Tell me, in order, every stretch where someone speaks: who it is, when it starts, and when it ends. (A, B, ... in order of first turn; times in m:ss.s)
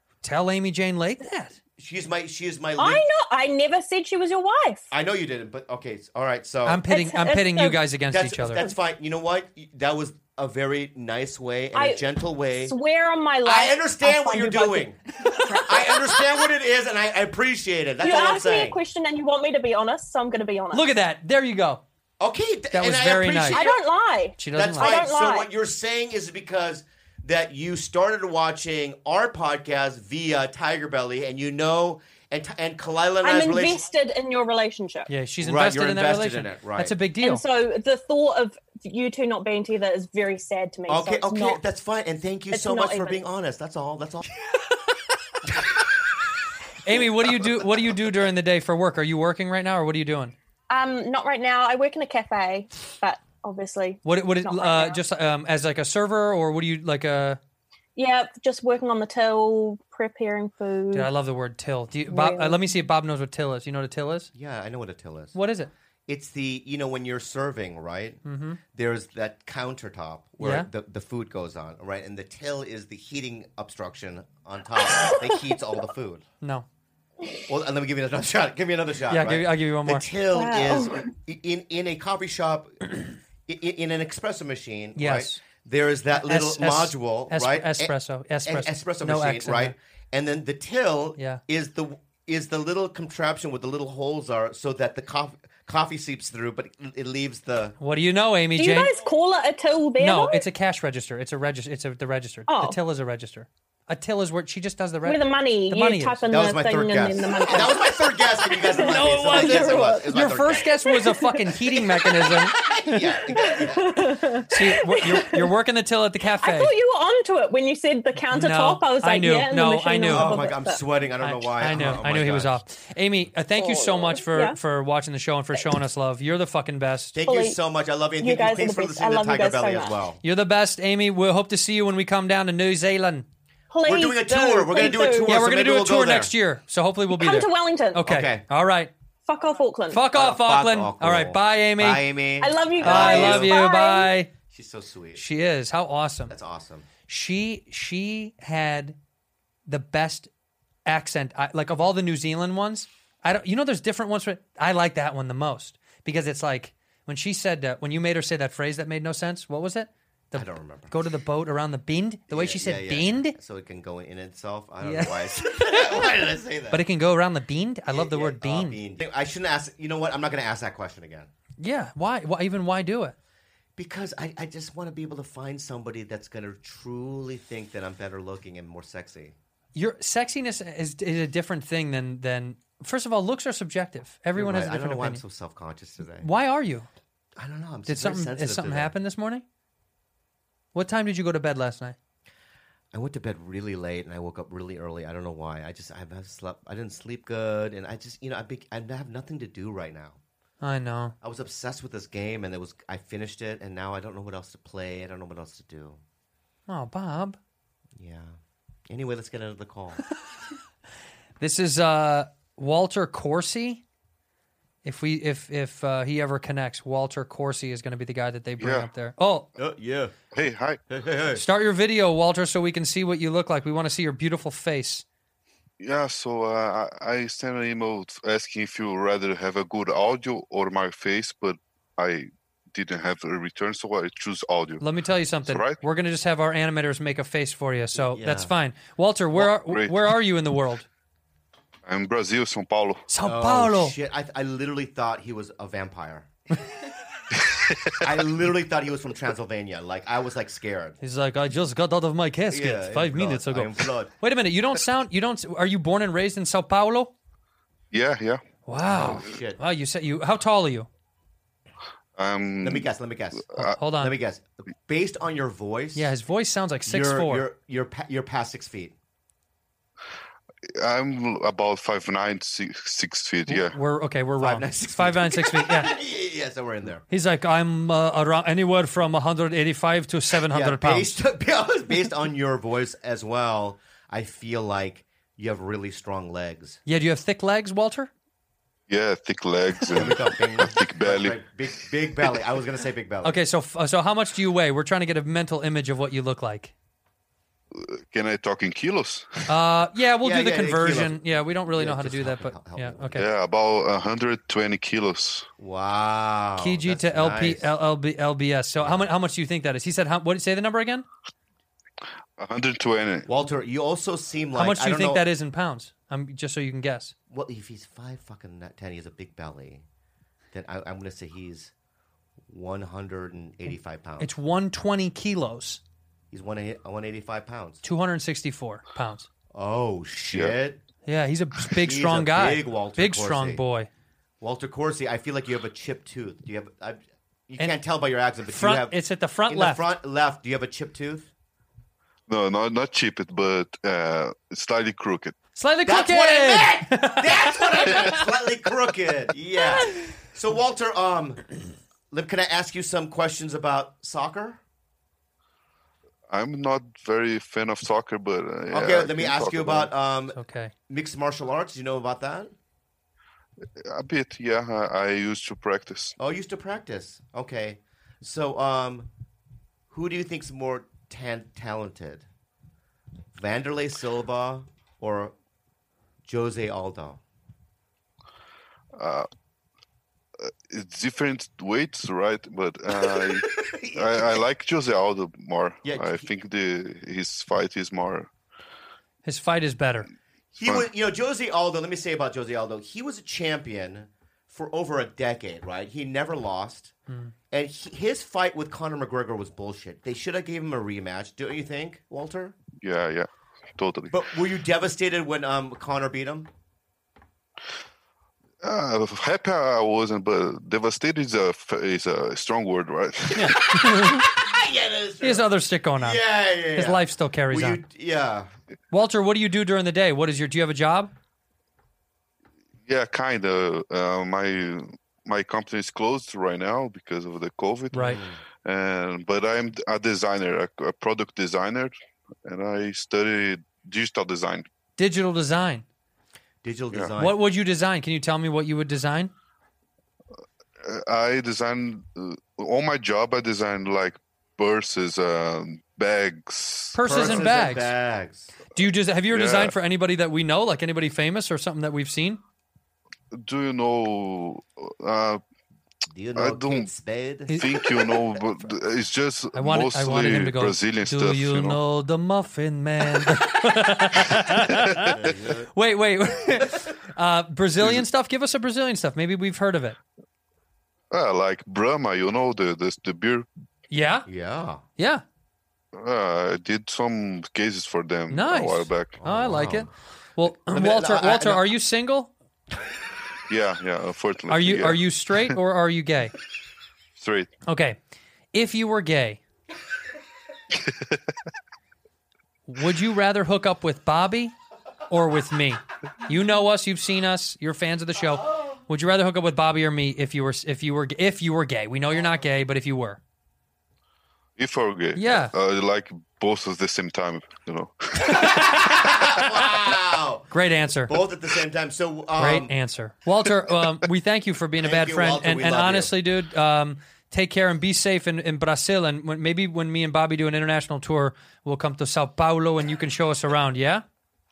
0:00.2-0:01.6 A
0:01.8-0:03.0 B
0:02.8-0:04.9 C
0:04.9-0:06.8 B
0:06.6-0:08.6 A
0:06.9-0:07.8 C
0:08.1-0:12.7 B
0:11.7-0:16.5 C
0:13.4-0:15.0 B
0:15.6-0:18.8 B
0:18.0-0:20.9 C
0:20.7-0:21.8 A
0:22.2-0:23.7 B
0:22.7-0:23.6 A
0:23.5-0:25.5 C
0:24.4-0:25.0 A
0:24.5-0:33.8 B
0:33.2-0:35.1 C
0:35.1-0:37.4 A
0:35.4-0:36.9 B
0:37.2-0:41.6 C
0:40.9-0:44.2 B
0:42.5-0:43.2 C
0:46.8-0:50.3 A
0:50.7-0:55.0 C
0:54.0-0:57.4 A
0:58.0-1:01.1 C
1:00.9-1:04.3 A
1:02.1-1:02.8 C
1:04.3-1:05.4 B
1:05.3-1:05.7 A
1:06.1-1:08.2 B
1:08.2-1:08.6 A
1:08.7-1:16.2 B
1:10.4-1:10.7 A
1:17.5-1:27.9 B
1:19.1-1:20.1 A
1:20.3-1:21.1 C
1:25.0-1:25.4 A
1:26.1-1:29.7 A
1:28.4-1:37.8 B
1:37.8-1:38.9 A
1:38.5-1:40.4 C
1:40.0-1:46.2 A
1:42.5-1:42.8 C
1:45.0-1:51.5 C
1:46.3-1:50.8 B
1:48.7-1:53.1 A
1:51.8-1:54.0 B
1:53.3-1:55.5 C
1:54.5-1:56.7 A
1:56.4-2:00.8 C
1:58.3-2:00.4 A
2:00.1-2:02.6 B
2:01.2-2:07.2 A
2:03.6-2:04.6 C
2:07.1-2:10.2 B
2:07.2-2:07.6 C
2:08.2-2:10.0 C
2:10.2-2:13.2 A
2:13.7-2:15.3 C
2:13.8-2:16.3 B
2:15.2-2:18.9 A
2:17.1-2:18.0 C
2:18.0-2:18.4 B
2:19.3-2:20.1 C
2:19.9-2:22.0 A
2:20.1-2:23.6 B
2:22.4-2:24.2 C
2:22.8-2:24.3 A
2:24.5-2:25.2 B
2:25.1-2:26.3 A
2:26.3-2:26.9 B
2:27.1-2:29.0 A
2:29.7-2:30.3 A
2:30.8-2:43.4 A
2:40.3-2:40.9 B
2:42.3-2:46.8 B
2:44.8-2:46.0 A
2:46.7-2:48.8 A
2:47.9-2:51.3 B
2:51.6-2:53.1 A
2:53.8-2:59.4 B
2:59.7-3:05.2 A
3:04.3-3:06.3 B
3:06.2-3:06.9 A
3:07.4-3:08.9 B
3:07.8-3:09.4 A
3:10.7-3:12.0 A
3:12.9-3:20.2 B
3:20.6-3:21.1 A
3:21.2-3:26.0 B
3:26.7-3:27.4 A
3:28.0-3:28.4 B
3:28.9-3:30.0 B
3:31.4-3:33.8 A
3:34.8-3:39.5 A
3:38.6-3:38.9 D
3:39.6-3:40.1 B
3:40.3-3:40.8 D
3:40.9-3:41.4 B
3:41.3-3:45.0 A
3:45.8-3:54.8 D
3:54.8-4:00.9 A
3:55.4-3:55.8 D
3:57.9-3:58.5 B
3:59.4-4:00.0 D
4:01.8-4:03.0 D
4:03.1-4:03.9 A
4:03.2-4:06.3 B
4:07.4-4:07.8 D
4:08.0-4:11.0 B
4:11.0-4:17.1 A
4:12.5-4:14.1 B
4:17.9-4:18.4 D
4:18.6-4:20.9 A
4:18.9-4:19.6 B
4:18.9-4:19.2 D
4:22.2-4:22.9 D
4:22.6-4:26.1 B
4:23.6-4:24.1 A
4:25.9-4:27.4 A
4:26.9-4:29.0 B
4:30.8-4:33.8 D
4:33.4-4:35.9 A
4:34.4-4:37.0 B
4:37.1-4:41.2 A
4:40.5-4:46.8 B
4:46.8-4:48.1 A
4:48.9-4:51.4 D
4:49.9-4:53.4 B
4:53.2-4:56.7 A
4:57.7-4:59.5 D
4:59.5-5:03.3 A
5:00.2-5:03.2 B
5:03.1-5:05.5 D
5:05.6-5:07.7 B
5:06.6-5:11.0 A
5:08.8-5:09.1 B
5:12.4-5:13.3 D
5:13.3-5:15.2 B
5:14.5-5:17.1 A
5:17.3-5:19.8 B
5:20.5-5:21.7 B
5:22.5-5:24.3 B
5:24.2-5:25.8 A
5:26.3-5:27.8 B
5:27.8-5:29.3 A
5:29.5-5:30.8 B
5:30.3-5:30.6 D
5:31.0-5:33.9 A
5:31.7-5:33.6 B
5:34.4-5:39.0 B
5:38.5-5:39.8 A
5:39.5-5:41.3 B
5:42.3-5:45.4 D
5:45.6-5:48.2 A
5:45.9-5:51.5 B
5:52.1-5:54.6 B
5:56.3-5:59.9 D
5:58.7-6:00.4 B
6:00.3-6:00.7 A
6:00.9-6:02.5 B
6:03.8-6:06.2 D
6:06.2-6:09.1 B
6:09.9-6:12.2 B
6:13.3-6:15.3 B
6:16.2-6:17.2 B
6:19.0-6:19.3 D
6:20.4-6:28.3 D
6:22.9-6:24.4 B
6:25.8-6:26.3 B
6:29.2-6:30.1 A
6:30.5-6:36.9 B
6:30.6-6:30.9 D
6:37.1-6:37.3 A
6:37.5-6:42.6 B
6:42.8-6:44.1 D
6:44.1-6:46.5 B
6:48.6-6:53.4 D
6:53.3-6:54.3 A
6:53.8-6:58.5 B
6:55.2-6:56.2 A
6:56.7-6:57.8 A
6:58.9-7:01.1 A
7:02.9-7:11.9 D
7:07.9-7:08.2 A
7:08.0-7:08.4 B
7:12.4-7:14.6 D
7:15.0-7:15.8 A
7:16.6-7:17.4 B
7:17.2-7:19.3 A
7:20.8-7:27.5 D
7:26.9-7:27.9 A
7:27.0-7:28.5 B
7:28.7-7:32.4 A
7:29.3-7:29.7 D
7:33.3-7:35.4 D
7:36.1-7:38.4 B
7:36.4-7:36.9 D
7:37.5-7:41.8 D
7:39.5-7:45.2 A
7:44.6-7:45.7 B
7:45.7-7:50.0 A
7:51.1-7:53.5 D
7:53.9-7:54.3 A
7:54.2-7:54.8 B
7:55.0-7:55.2 A
7:55.9-7:59.2 D
7:58.3-8:02.3 A
7:59.2-7:59.9 B
8:00.6-8:01.7 B
8:03.5-8:05.5 D
8:04.5-8:06.3 A
8:07.2-8:07.5 D
8:07.7-8:08.0 A
8:08.5-8:09.4 A
8:10.7-8:11.2 D
8:12.7-8:14.5 A
8:15.1-8:23.2 A
8:24.6-8:28.6 D
8:25.2-8:25.5 A
8:28.3-8:29.0 A
8:28.3-8:30.5 B
8:30.5-8:31.2 A
8:31.1-8:32.7 B
8:32.4-8:44.0 A
8:34.8-8:36.1 B